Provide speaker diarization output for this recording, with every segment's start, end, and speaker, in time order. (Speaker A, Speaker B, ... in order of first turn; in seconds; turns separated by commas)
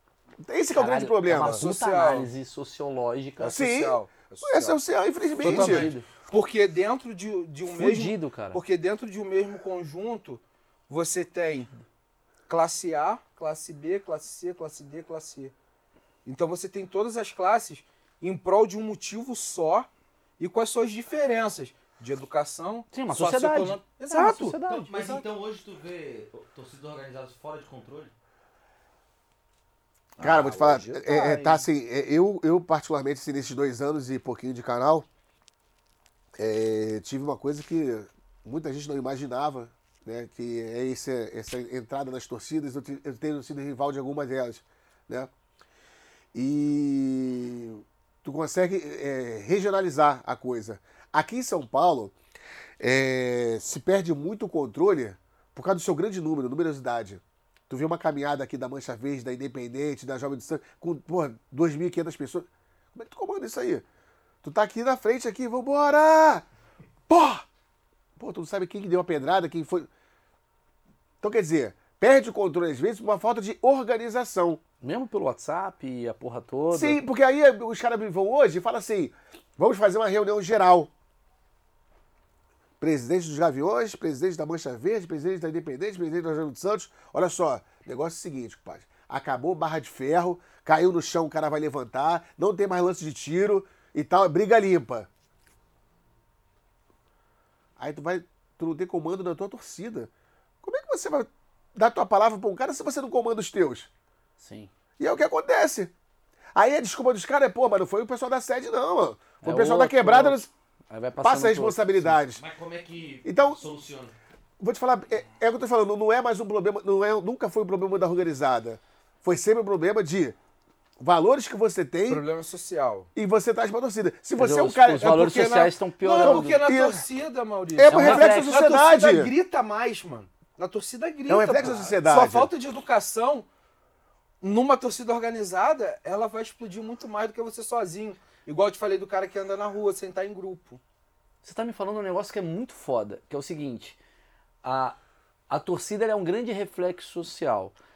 Speaker A: 0.4-1.7, Speaker B: 0.7-3.6, Speaker C: 1.3-2.3, Speaker A: 3.4-5.9, Speaker C: 3.4-4.8, Speaker B: 5.4-6.1, Speaker C: 5.4-11.7, Speaker B: 7.7-8.6, Speaker C: 12.5-15.5, Speaker C: 16.2-19.9, Speaker C: 20.4-25.2, Speaker B: 22.9-25.2, Speaker D: 24.6-28.1, Speaker C: 30.2-31.6, Speaker A: 30.2-35.1, Speaker A: 36.4-45.3, Speaker A: 46.3-52.1, Speaker A: 52.8-63.9, Speaker A: 64.4-66.5, Speaker A: 67.1-67.5, Speaker A: 68.2-69.9, Speaker A: 71.2-74.6, Speaker B: 74.8-77.0, Speaker A: 76.7-80.9, Speaker A: 82.8-95.1, Speaker A: 97.8-100.1, Speaker A: 100.6-103.9, Speaker B: 104.4-104.7, Speaker A: 105.0-105.9, Speaker A: 106.5-110.5, Speaker B: 109.4-112.2, Speaker A: 111.2-112.4, Speaker D: 112.3-114.1, Speaker A: 113.2-113.6, Speaker A: 114.6-120.4, Speaker A: 121.0-122.2, Speaker C: 122.1-123.1, Speaker A: 123.2-125.2, Speaker B: 124.4-126.6, Speaker C: 125.0-133.5, Speaker A: 126.2-127.0, Speaker A: 127.8-129.3, Speaker B: 127.9-128.6, Speaker A: 131.3-132.5, Speaker C: 134.4-140.8, Speaker B: 141.4-144.0, Speaker B: 144.6-145.0, Speaker B: 145.5-147.8